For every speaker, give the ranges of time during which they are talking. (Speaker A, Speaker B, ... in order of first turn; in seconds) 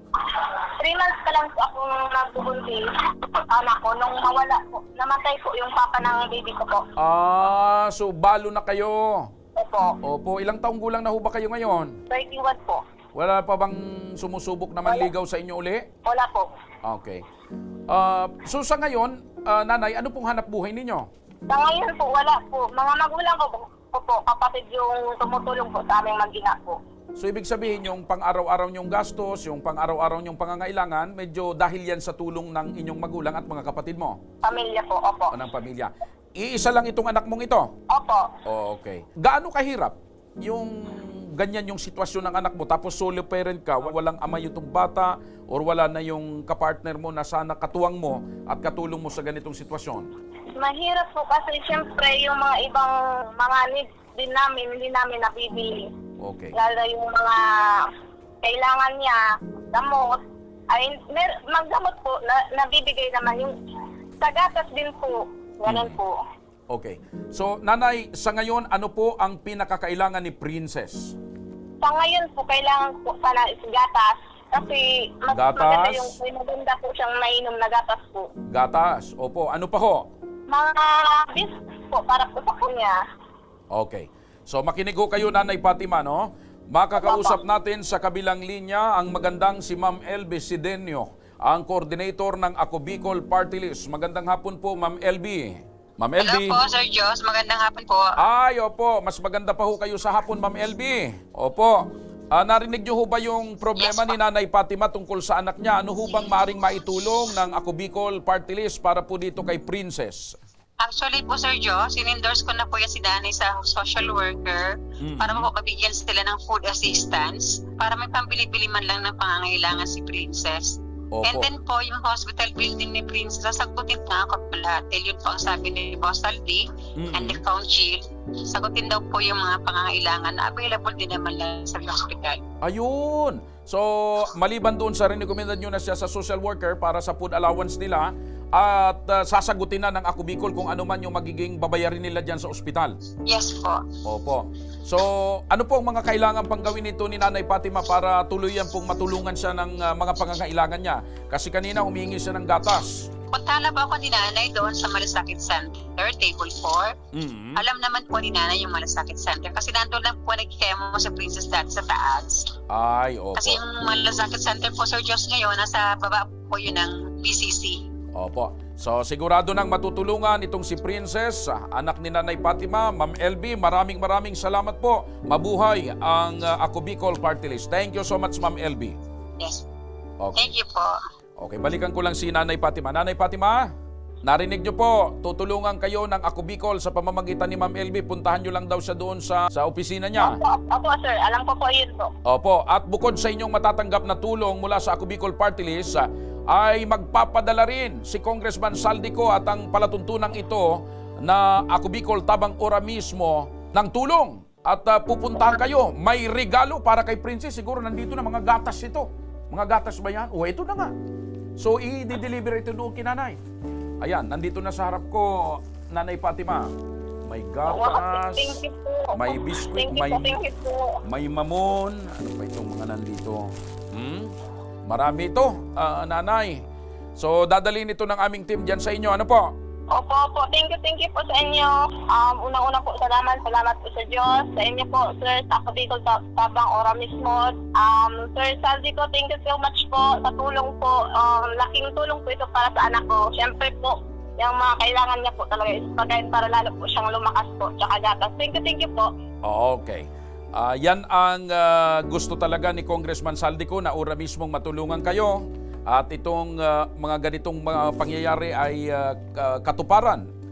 Speaker A: 0.4-6.8, 9.6-10.0, 12.1-12.8, 16.1-16.5, 21.5-26.8, 34.4-35.3, 37.9-38.3, 50.6-55.9, 56.5-57.9, 58.4-59.2, 59.7-63.5, 64.2-66.2, 71.8-78.3, 80.5-83.0, 87.0-87.4, 190.2-192.1, 217.7-221.0, 229.9-249.1
Speaker B: 7.0-9.3, 10.0-11.9, 13.1-15.8, 16.8-17.2, 17.9-21.1, 27.2-34.2, 35.3-37.7, 38.5-50.1, 56.2-56.5, 65.7-66.0, 66.7-71.1, 75.3-76.2, 78.5-80.0, 83.7-96.6, 98.2-110.4, 115.0-115.5, 121.1-121.5, 127.0-127.4, 132.6-142.9, 144.0-153.1, 157.1-157.6, 162.7-163.6, 168.1-178.9, 180.2-180.5, 181.4-183.6, 184.2-190.4, 192.2-210.9, 211.6-213.4, 214.0-216.7, 217.2-218.6, 219.1-220.4, 221.1-224.3, 224.9-226.6, 227.2-229.5, 249.4-260.2
Speaker C: 96.2-98.1, 103.8-104.2, 110.8-132.4, 143.2-143.8, 153.3-156.9, 157.5-162.5, 163.4-167.8, 179.4-179.6, 180.3-180.9